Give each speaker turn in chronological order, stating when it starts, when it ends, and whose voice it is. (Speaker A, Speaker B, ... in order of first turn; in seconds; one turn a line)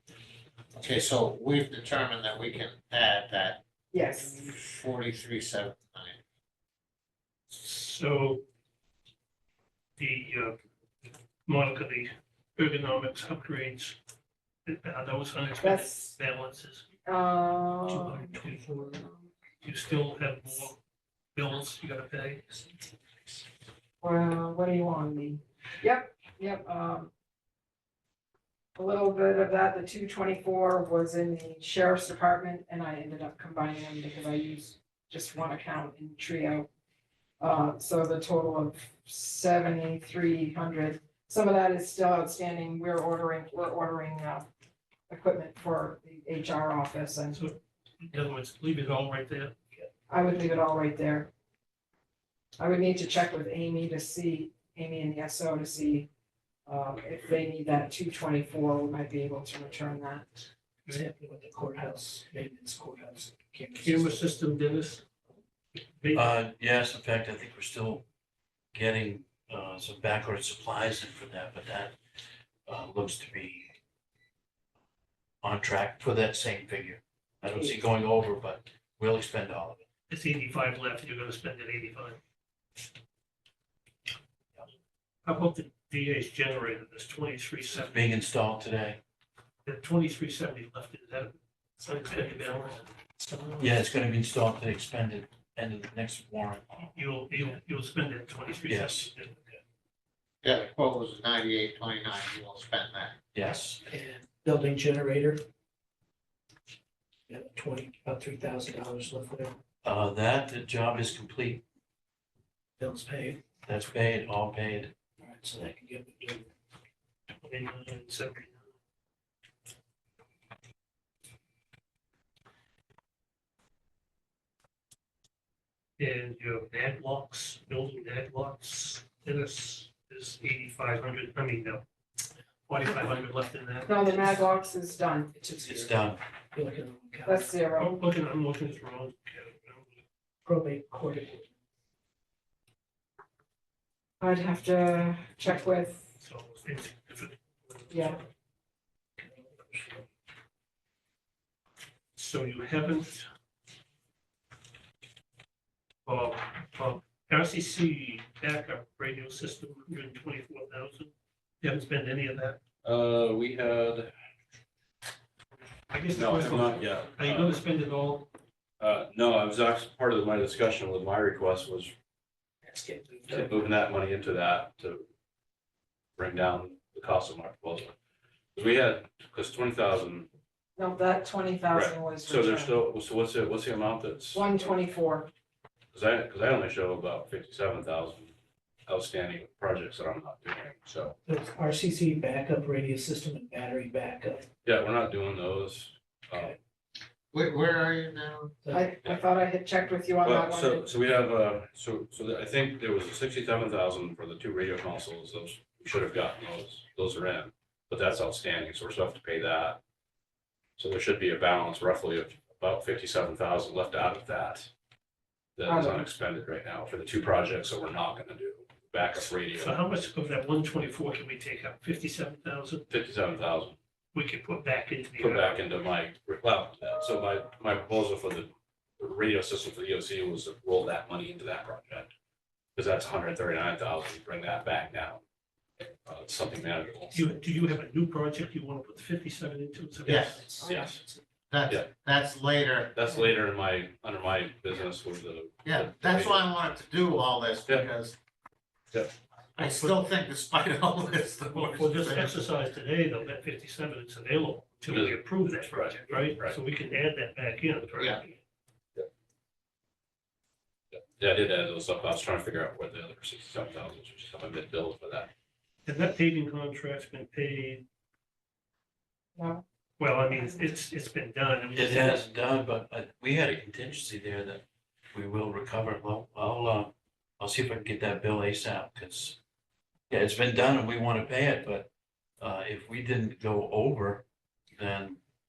Speaker A: 0.8-3.6
Speaker B: 3.9-4.4
Speaker A: 4.2-6.2
Speaker C: 7.5-8.4
Speaker C: 10.0-10.6
Speaker C: 11.5-14.0
Speaker C: 14.7-16.9
Speaker B: 15.6-16.1
Speaker B: 17.1-18.4
Speaker C: 17.9-19.1
Speaker B: 18.9-19.3
Speaker C: 19.6-20.8
Speaker C: 21.4-22.6
Speaker B: 24.0-27.1
Speaker B: 28.8-36.7
Speaker B: 37.4-44.5
Speaker B: 45.1-47.4
Speaker C: 47.3-49.6
Speaker B: 50.1-51.3
Speaker B: 52.6-56.1
Speaker B: 56.7-60.4
Speaker D: 60.9-64.4
Speaker C: 63.8-65.1
Speaker C: 66.0-66.3
Speaker E: 66.1-68.0
Speaker E: 68.7-72.0
Speaker E: 72.7-73.8
Speaker E: 75.4-79.8
Speaker C: 80.1-82.2
Speaker C: 85.2-88.1
Speaker E: 87.7-89.0
Speaker C: 89.7-92.9
Speaker D: 92.1-92.5
Speaker D: 93.2-93.8
Speaker E: 93.6-96.8
Speaker C: 97.0-99.4
Speaker E: 98.7-99.1
Speaker A: 100.4-103.2
Speaker E: 103.3-103.8
Speaker D: 103.8-105.4
Speaker D: 107.3-109.6
Speaker E: 109.8-111.6
Speaker D: 112.8-113.4
Speaker E: 113.7-115.0
Speaker D: 115.2-116.5
Speaker C: 117.4-118.7
Speaker C: 126.0-131.8
Speaker C: 132.7-134.4
Speaker B: 133.9-135.9
Speaker E: 135.6-136.2
Speaker D: 136.5-137.5
Speaker B: 137.2-138.0
Speaker C: 137.8-140.0
Speaker D: 140.4-141.5
Speaker B: 144.2-146.2
Speaker C: 146.2-148.2
Speaker B: 147.9-148.2
Speaker D: 149.2-150.0
Speaker C: 152.2-153.3
Speaker C: 156.1-162.6
Speaker F: 162.8-164.1
Speaker C: 165.9-168.3
Speaker F: 166.1-167.6
Speaker F: 168.8-171.9
Speaker D: 172.7-173.6
Speaker F: 173.3-175.1
Speaker F: 176.2-177.9
Speaker F: 178.6-180.3
Speaker B: 180.8-182.8
Speaker F: 181.7-184.5
Speaker B: 184.3-185.3
Speaker F: 185.9-188.3
Speaker F: 188.9-191.2
Speaker D: 191.3-194.5
Speaker F: 194.6-196.6
Speaker A: 197.3-198.5
Speaker D: 198.6-198.9
Speaker B: 198.7-200.9
Speaker F: 200.2-209.8
Speaker F: 210.8-214.7
Speaker F: 215.6-219.8
Speaker B: 215.7-216.1
Speaker C: 219.6-222.9
Speaker F: 222.9-223.8
Speaker C: 224.1-225.6
Speaker F: 225.2-232.1
Speaker F: 232.8-235.2
Speaker F: 236.1-237.2
Speaker C: 237.1-240.6
Speaker A: 240.1-240.5
Speaker D: 240.3-241.2
Speaker F: 240.6-241.0
Speaker B: 240.6-240.9
Speaker A: 241.5-243.1
Speaker F: 242.9-246.5
Speaker A: 245.6-248.2
Speaker A: 249.6-252.4
Speaker C: 249.6-250.0
Speaker C: 251.5-258.4
Speaker F: 254.9-256.6
Speaker A: 258.0-258.2
Speaker F: 260.9-265.3
Speaker C: 265.9-267.9
Speaker B: 269.4-269.6
Speaker C: 270.0-272.2
Speaker B: 270.3-270.7
Speaker E: 271.8-279.4
Speaker E: 280.1-284.2
Speaker E: 284.8-285.2